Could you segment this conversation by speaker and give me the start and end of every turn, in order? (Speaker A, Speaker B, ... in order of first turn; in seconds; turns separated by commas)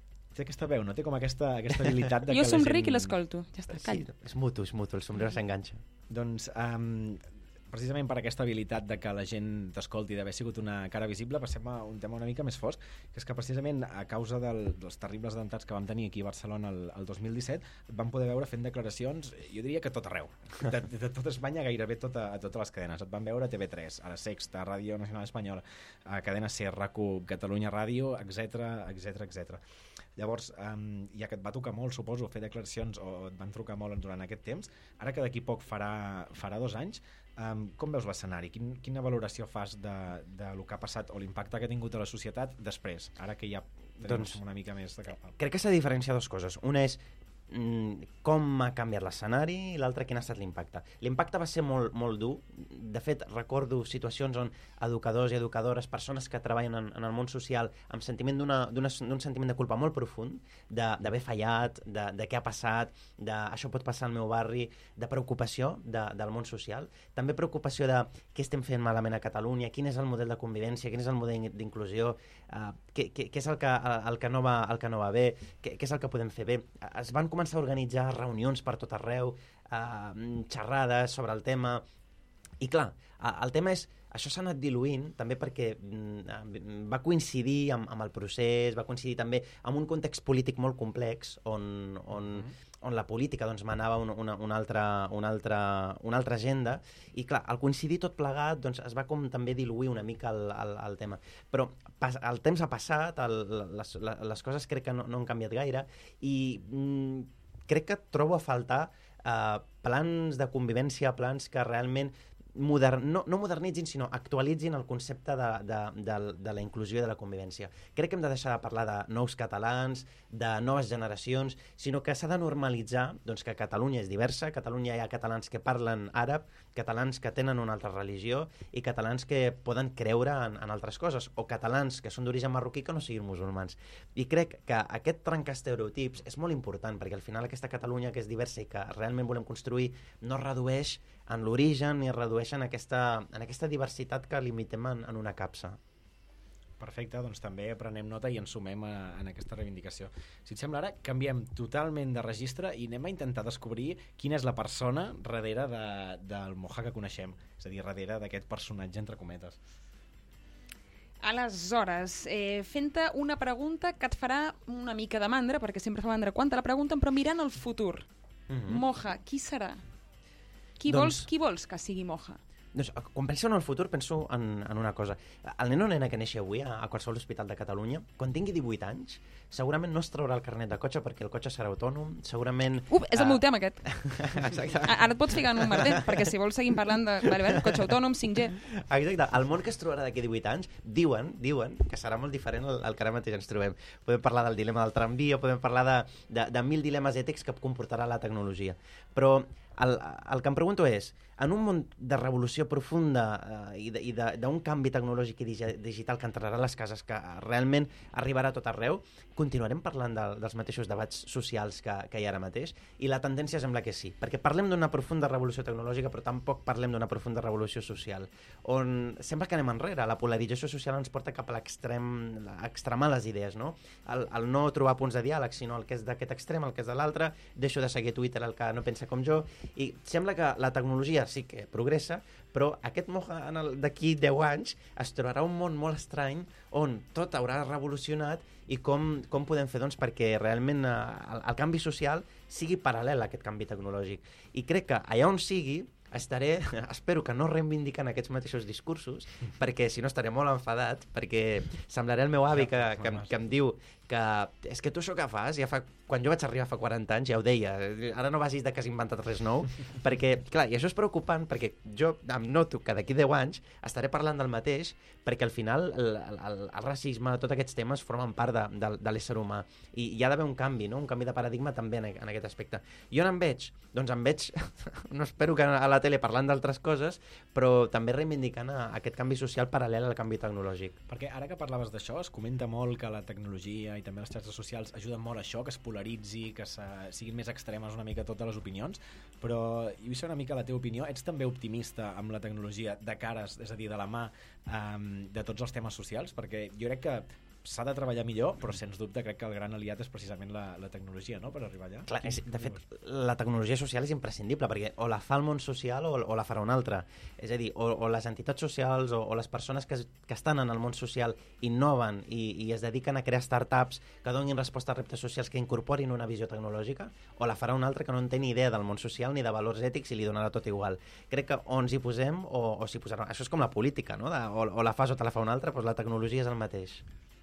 Speaker A: 0.3-3.1, Speaker B: 2.3-4.0, Speaker C: 3.7-5.8, Speaker A: 6.1-29.6, Speaker A: 30.2-45.3, Speaker C: 44.0-44.4, Speaker C: 45.4-81.8, Speaker C: 82.6-145.8, Speaker A: 146.8-159.6, Speaker B: 161.2-168.1, Speaker C: 168.5-168.8, Speaker B: 168.6-169.8, Speaker B: 170.8-172.4, Speaker C: 170.9-171.3, Speaker C: 172.7-186.3, Speaker B: 182.9-183.9, Speaker B: 184.8-188.6, Speaker C: 188.6-281.0, Speaker A: 252.6-253.3, Speaker A: 281.1-302.8, Speaker C: 302.1-327.0